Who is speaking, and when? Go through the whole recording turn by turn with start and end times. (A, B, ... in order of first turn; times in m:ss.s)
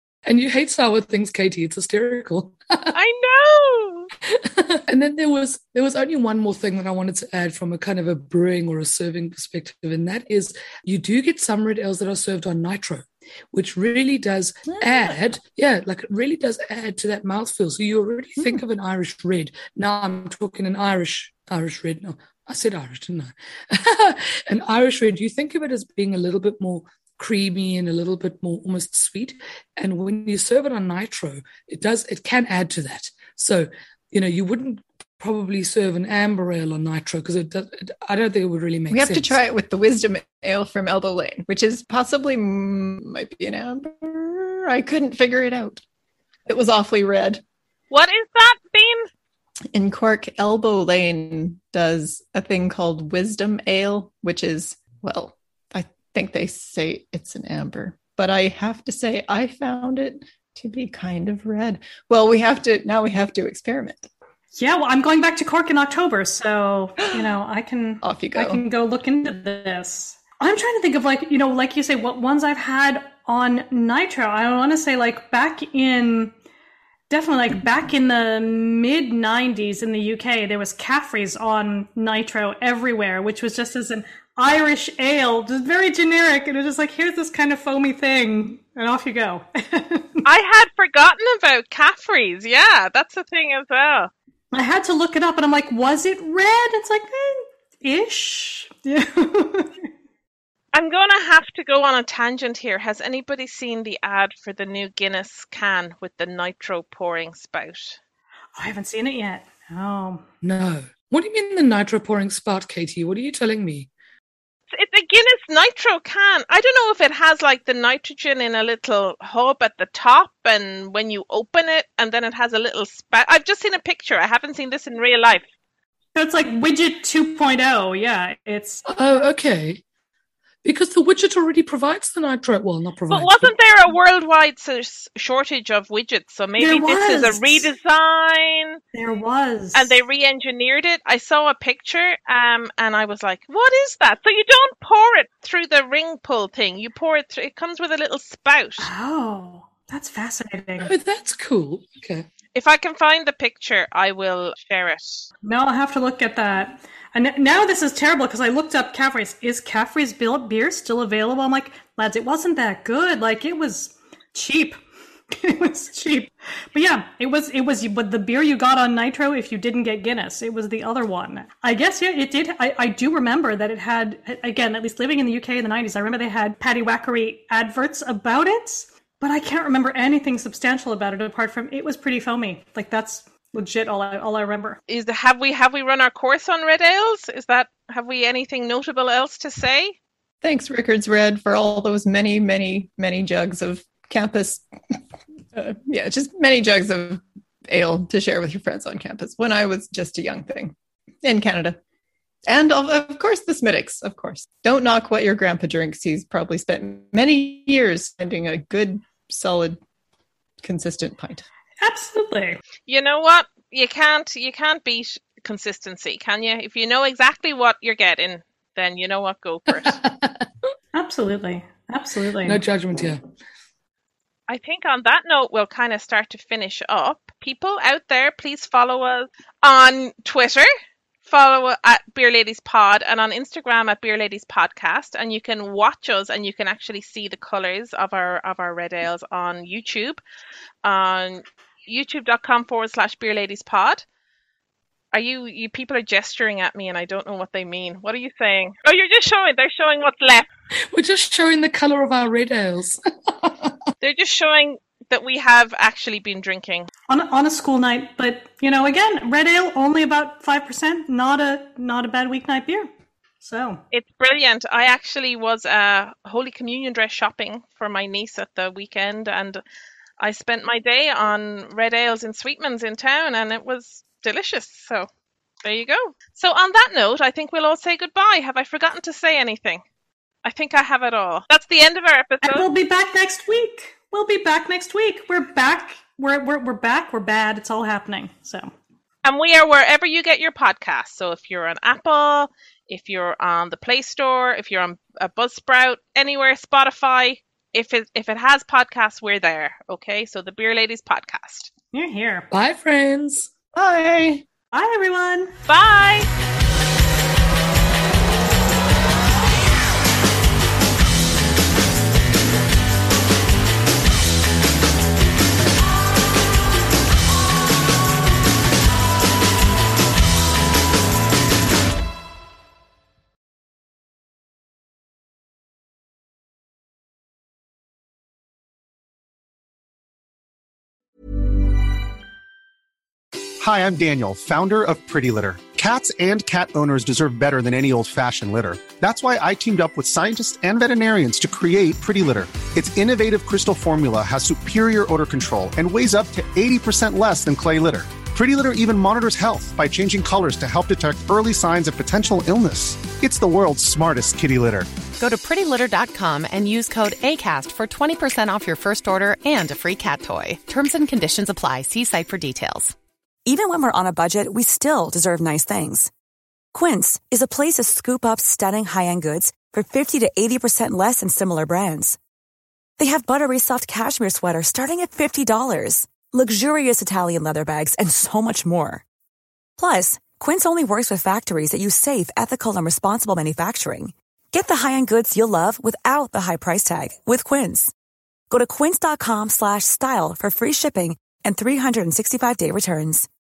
0:00.2-0:02.9 A
0:02.9-0:04.1 B
0:04.3-0:39.4 A
0:38.9-0:45.8 C
0:46.5-0:47.4 C
0:47.9-0:49.1 B
0:49.7-1:04.1 C
1:04.5-1:16.3 D
1:08.0-1:08.6 C
1:17.1-1:30.2 D
1:30.2-1:34.1 B
1:34.5-1:39.8 D
1:40.7-1:48.0 B
1:48.6-1:50.2 D
1:50.4-1:53.9 A
1:54.7-2:05.4 B
2:06.1-2:08.8 D
2:08.8-2:09.8 A
2:10.6-2:13.5 A
2:13.1-2:18.8 B
2:16.6-2:17.7 D
2:18.9-2:20.0 D
2:19.7-2:28.9 B
2:28.8-2:30.9 D
2:30.8-2:32.2 A
2:32.5-2:35.3 B
2:35.4-2:44.8 D
2:45.3-3:04.8 D
3:04.9-3:09.9 B
3:10.4-3:14.6 C
3:15.5-3:21.8 C
3:22.5-3:29.8 C
3:30.6-3:31.4 C
3:31.8-3:32.6 D
3:32.8-3:40.0 B
3:39.7-3:40.4 A
3:40.9-3:42.6 D
3:42.4-3:43.2 A
3:44.5-3:50.7 B
3:51.2-4:00.2 B
4:00.8-4:04.0 B
4:05.1-4:10.4 B
4:10.9-4:13.8 A
4:14.0-4:16.9 B
4:17.1-4:22.9 D
4:23.4-4:23.8 D
4:23.9-4:29.6 B
4:30.2-4:35.1 B
4:35.6-4:39.8 B
4:40.4-4:42.7 B
4:42.4-4:48.7 D
4:49.2-5:01.7 B
5:01.9-5:02.5 D
5:02.5-5:03.5 A
5:03.7-5:04.4 C
5:04.7-5:05.5 D
5:05.7-5:06.3 B
5:33.6-5:54.9 E
5:55.2-6:02.9 F
6:03.4-6:06.1 G
6:06.7-6:12.2 G
6:13.0-6:19.0 G
6:19.8-6:27.9 G
6:28.5-6:33.3 G